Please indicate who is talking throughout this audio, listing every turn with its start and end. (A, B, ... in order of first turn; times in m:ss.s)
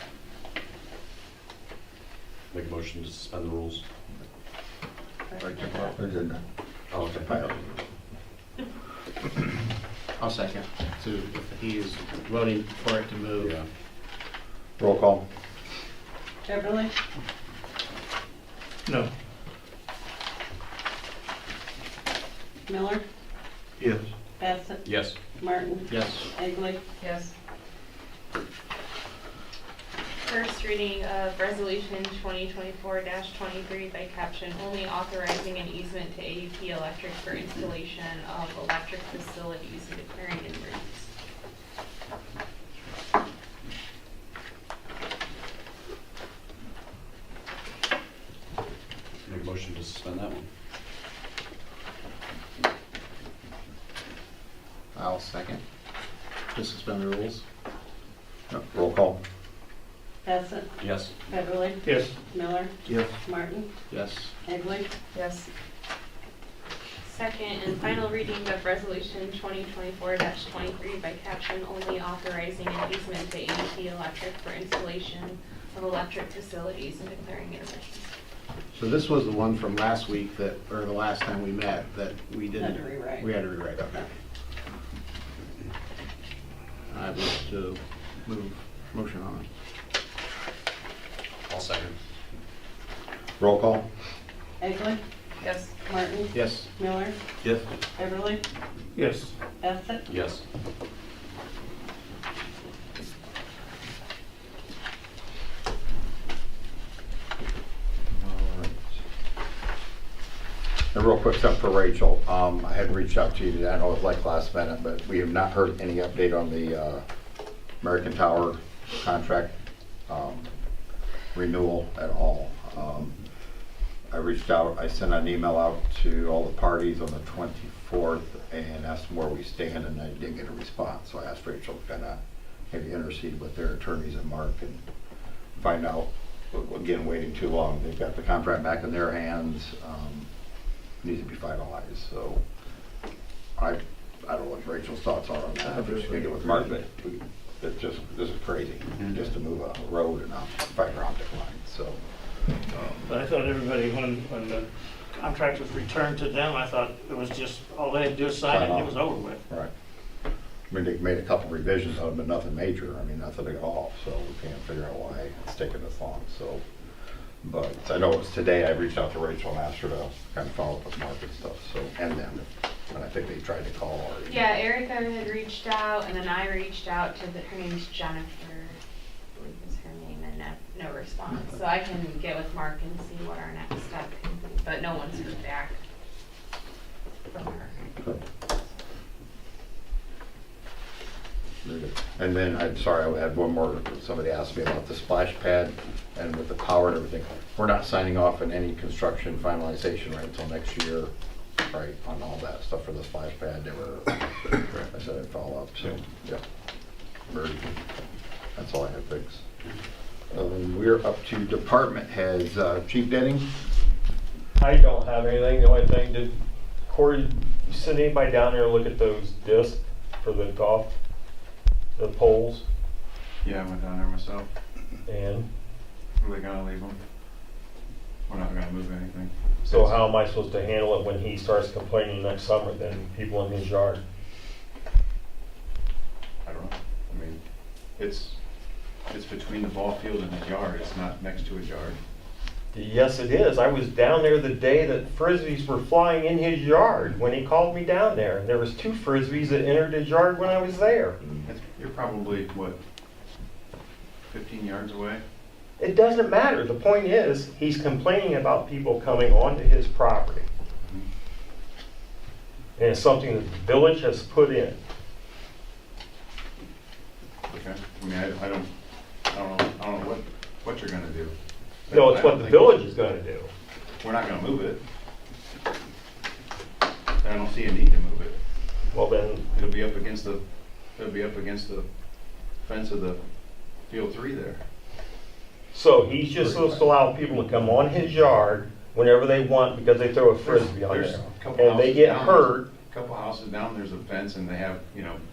0:02.5-0:03.8 A
0:05.4-0:06.4 B
0:06.9-0:07.3 A
0:07.1-0:07.7 B
0:10.2-0:13.5 C
0:14.8-0:15.2 B
0:16.4-0:16.9 D
0:22.6-0:23.0 D
0:24.4-0:26.8 D
0:24.8-0:25.2 A
0:27.0-0:27.3 E
0:30.2-0:41.1 E
0:49.2-0:50.4 A
0:54.9-0:55.6 C
0:56.5-0:57.4 C
0:58.5-0:59.2 B
1:00.2-1:03.7 D
1:00.8-1:01.1 A
1:01.8-1:02.2 F
1:03.9-1:04.3 C
1:04.4-1:04.9 D
1:05.1-1:05.5 E
1:07.0-1:18.1 E
1:18.7-1:22.6 C
1:22.6-1:23.3 D
1:23.2-1:24.0 C
1:26.9-1:29.4 C
1:31.5-1:31.9 A
1:33.4-1:33.8 B
1:34.6-1:35.0 D
1:35.4-1:35.7 E
1:35.8-1:37.2 D
1:38.0-1:38.4 D
1:38.9-1:39.3 F
1:39.6-1:40.0 D
1:40.1-1:40.4 A
1:48.1-1:48.8 B
1:50.9-1:57.0 B
1:57.8-1:59.5 B
2:00.1-2:00.5 B
2:01.3-2:03.2 B
2:04.1-2:12.2 B
2:12.7-2:14.8 B
2:15.6-2:20.3 B
2:21.0-2:22.4 B
2:23.6-2:32.0 B
2:32.5-2:33.1 B
2:33.1-2:39.4 F
2:38.5-2:38.9 B
2:40.7-2:46.6 B
2:47.4-2:54.4 B
2:54.3-2:58.8 E
2:59.3-3:05.8 E
3:07.3-3:07.8 E
3:11.6-3:21.1 B
3:21.6-3:26.4 B
3:27.3-3:27.8 B
3:28.6-3:29.4 B
3:30.3-3:33.5 B
3:34.6-3:40.9 G
3:42.0-3:42.6 G
3:43.4-3:44.5 H
3:45.1-3:45.5 G
3:46.2-3:47.0 H
3:48.3-3:50.0 H
3:49.7-3:54.0 G
3:56.4-3:57.4 H
3:58.0-3:58.4 H
3:59.1-4:02.0 H
4:02.7-4:11.2 G
4:11.4-4:12.8 H
4:14.3-4:15.2 H
4:15.8-4:20.5 G
4:22.8-4:24.8 G
4:27.5-4:28.7 H
4:29.3-4:31.3 H
4:31.9-4:32.8 H
4:31.9-4:33.5 G
4:34.0-4:34.8 H
4:37.2-4:38.4 H
4:38.9-4:39.5 G
4:39.5-4:40.4 H
4:41.0-4:41.8 H
4:42.6-4:43.2 H
4:43.9-4:44.6 H
4:45.7-4:52.6 G
4:50.4-4:55.2 H